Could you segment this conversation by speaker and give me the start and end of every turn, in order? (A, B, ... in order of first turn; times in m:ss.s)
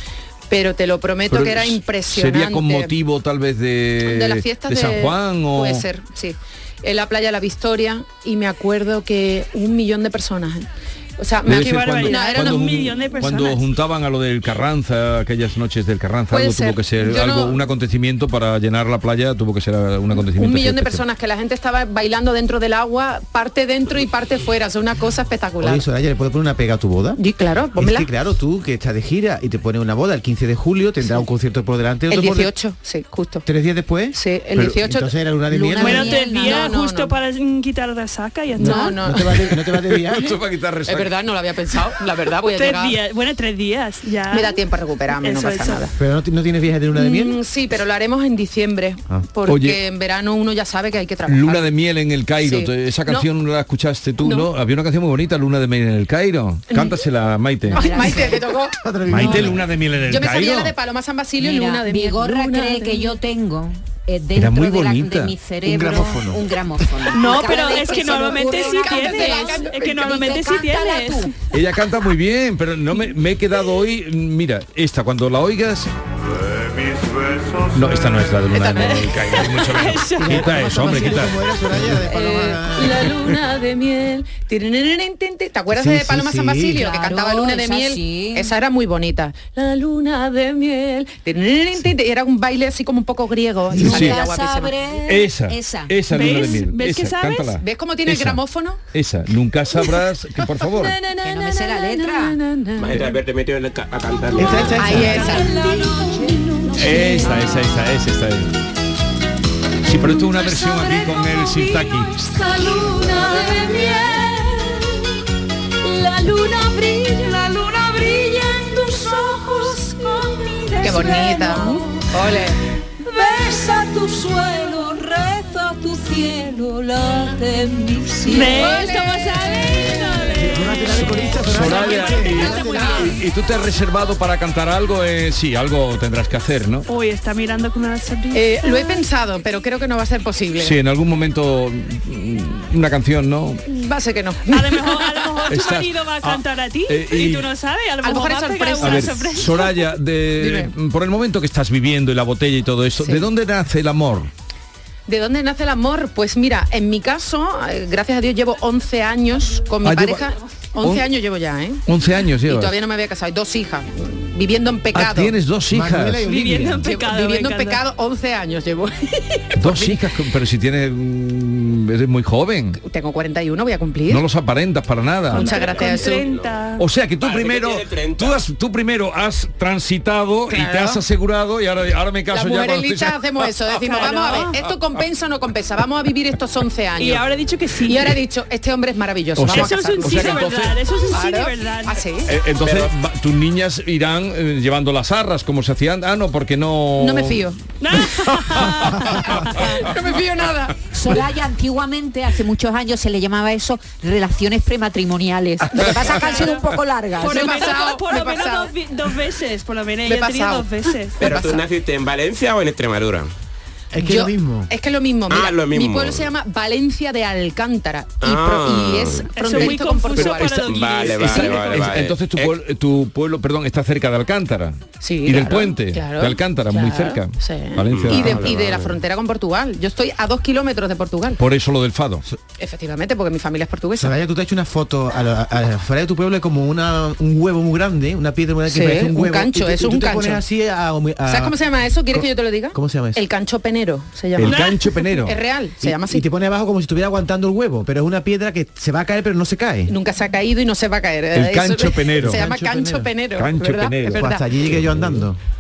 0:00.5-0:02.9 A
0:01.3-0:05.9 B
0:04.0-0:12.7 A
0:11.4-0:21.0 B
0:11.5-0:13.7 C
0:16.3-0:17.6 A
0:20.1-0:25.8 A
0:25.6-0:27.2 D
0:27.2-0:28.1 A
0:27.8-0:32.5 D
0:32.1-0:33.4 A
0:33.4-0:36.2 D
0:34.1-0:35.1 A
0:35.5-0:36.8 E
0:35.8-0:39.1 C
0:36.3-0:37.1 A
0:38.6-0:40.4 D
0:38.6-0:39.4 A
0:39.7-0:41.1 B
0:40.9-0:43.0 A
0:42.5-0:44.6 C
0:44.3-0:45.9 A
0:45.1-0:45.9 C
0:46.0-0:47.4 D
0:46.9-0:51.7 A
0:49.5-0:49.8 B
0:51.3-0:58.0 B
0:52.4-0:53.3 A
0:54.2-0:54.5 A
0:56.7-0:57.0 A
0:57.7-0:58.4 E
0:57.7-0:59.3 A
0:58.8-0:59.7 D
0:59.1-1:00.8 B
1:00.0-1:03.1 A
1:01.4-1:11.3 E
1:04.4-1:05.4 B
1:05.6-1:06.5 D
1:07.1-1:11.3 C
1:08.4-1:10.0 A
1:11.5-1:15.9 B
1:17.7-1:21.4 B
1:18.5-1:19.3 A
1:18.8-1:20.8 C
1:20.2-1:23.1 D
1:22.1-1:34.8 A
1:25.7-1:26.8 D
1:26.7-1:28.5 E
1:33.7-1:35.9 E
1:33.8-1:34.2 B
1:35.0-1:38.4 B
1:36.1-1:37.6 C
1:37.6-1:38.8 A
1:38.9-1:41.0 B
1:41.2-1:41.9 F
1:41.2-1:42.4 E
1:42.0-1:43.1 A
1:42.8-1:45.0 G
1:44.4-1:45.3 D
1:44.8-1:45.7 E
1:44.8-1:45.4 A
1:45.0-1:47.5 F
1:45.2-1:45.8 C
1:46.8-1:48.6 B
1:49.8-1:52.2 B
1:50.2-1:55.1 F
1:55.8-2:02.1 F
2:00.8-2:02.6 A
2:03.0-2:10.4 F
2:08.3-2:13.2 C
2:10.4-2:13.0 D
2:11.4-2:16.9 B
2:16.9-2:19.0 C
2:18.3-2:20.8 A
2:20.6-2:23.6 B
2:23.7-2:25.4 A
2:24.5-2:29.9 C
2:25.5-2:27.5 B
2:28.0-2:29.3 A
2:28.8-2:34.3 B
2:30.4-2:30.7 A
2:33.0-2:33.3 A
2:35.1-2:41.8 A
2:39.8-2:41.1 B
2:41.9-2:42.8 B
2:42.4-2:45.4 A
2:44.9-2:46.2 B
2:45.7-2:46.9 D
2:46.2-2:47.8 C
2:46.7-2:50.0 A
2:49.6-2:52.8 B
2:52.8-2:54.2 A
2:54.1-2:55.5 B
2:55.3-2:56.3 A
2:55.3-2:56.8 C
2:55.4-2:56.6 G
2:56.8-3:03.8 B
2:57.2-2:58.4 G
3:00.5-3:01.0 A
3:02.3-3:07.2 A
3:03.8-3:04.6 C
3:07.0-3:08.2 C
3:07.8-3:10.5 A
3:09.4-3:10.8 B
3:09.4-3:12.0 C
3:11.1-3:12.3 A
3:12.3-3:17.5 B
3:12.6-3:12.9 G
3:17.0-3:17.6 A
3:17.8-3:19.6 C
3:18.5-3:19.8 B
3:19.2-3:20.8 A
3:20.9-3:27.7 E
3:25.7-3:26.5 A
3:26.2-3:31.3 C
3:27.2-3:28.7 A
3:30.0-3:31.6 A
3:31.2-3:33.3 G
3:33.9-3:34.7 D
3:34.0-3:40.6 A
3:35.3-3:36.3 G
3:38.2-3:39.8 G
3:39.3-3:41.8 C
3:40.1-3:40.4 B
3:40.5-3:42.6 G
3:41.1-3:48.5 B
3:45.0-3:51.4 A
3:47.9-3:49.0 G
3:51.4-3:52.2 B
3:52.6-3:54.2 A
3:54.0-4:01.6 D
3:58.7-4:00.4 A
4:01.3-4:06.3 A
4:02.1-4:03.2 D
4:04.4-4:05.4 B
4:04.4-4:05.1 C
4:05.8-4:09.9 D
4:09.9-4:14.5 A
4:11.3-4:12.5 B
4:12.2-4:13.1 D
4:13.4-4:14.3 B
4:14.1-4:15.4 D